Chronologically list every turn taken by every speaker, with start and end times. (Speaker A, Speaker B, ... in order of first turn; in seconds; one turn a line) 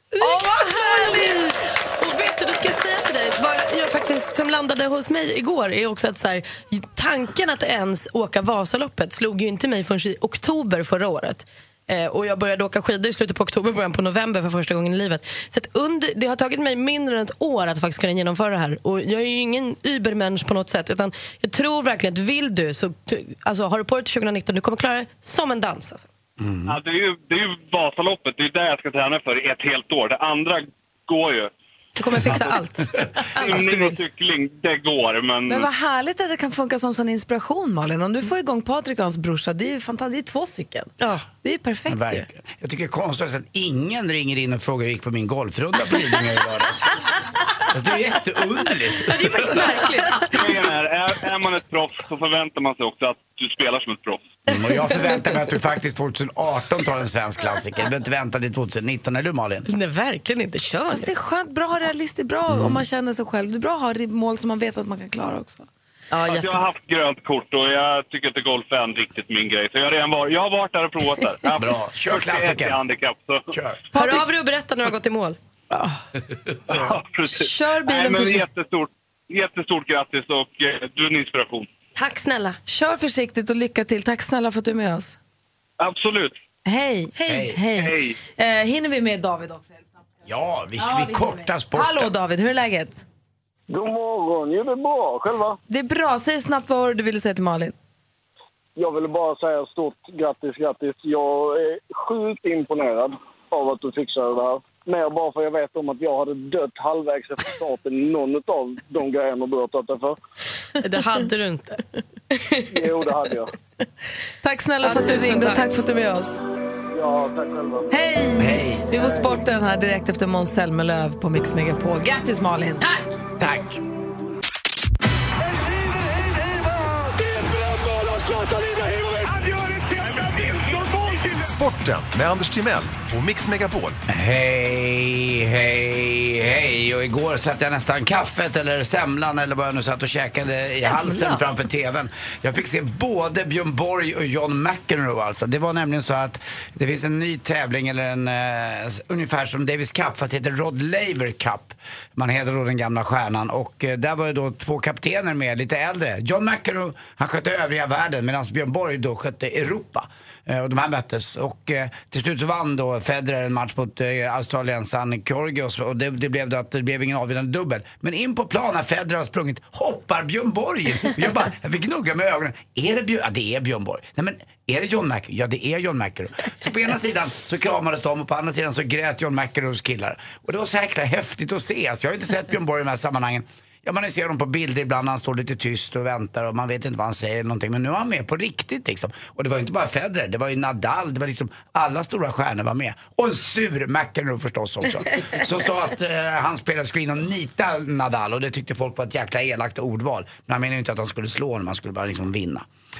Speaker A: 0.1-26.1
Speaker B: 0.2-1.4
Speaker C: 26.4-26.8
Speaker D: 26.7-31.5
Speaker A: 31.9-34.0
Speaker D: 33.4-35.7
Speaker B: 35.5-42.3
Speaker A: 41.0-41.3
Speaker C: 41.9-47.0
Speaker C: 47.6-49.7
Speaker A: 49.1-50.3
Speaker D: 50.3-54.2
Speaker C: 54.5-59.7
Speaker A: 59.7-61.1
Speaker B: 60.9-65.7
Speaker C: 62.5-62.8
Speaker A: 66.1-66.6
Speaker D: 66.2-73.5
Speaker C: 71.5-72.8
Speaker C: 73.5-73.8
Speaker A: 73.9-75.4
Speaker B: 73.9-74.3
Speaker B: 75.7-76.0
Speaker C: 76.7-77.0
Speaker D: 76.7-81.7
Speaker B: 77.3-78.5
Speaker A: 82.0-82.6
Speaker B: 82.7-85.2
Speaker D: 85.8-86.4
Speaker B: 86.7-89.8
Speaker C: 87.2-87.6
Speaker D: 87.8-88.2
Speaker C: 90.2-92.1
Speaker B: 90.8-93.0
Speaker E: 93.7-95.6
Speaker B: 95.7-97.7
Speaker E: 98.8-110.2
Speaker A: 110.8-112.7
Speaker E: 112.7-113.5
Speaker B: 114.4-116.4
Speaker A: 114.8-115.6
Speaker E: 116.9-118.0
Speaker B: 117.9-122.9
Speaker C: 118.4-118.9
Speaker E: 118.9-119.4
Speaker C: 123.4-123.8
Speaker D: 130.2-131.0
Speaker F: 131.4-134.0
Speaker C: 134.1-202.7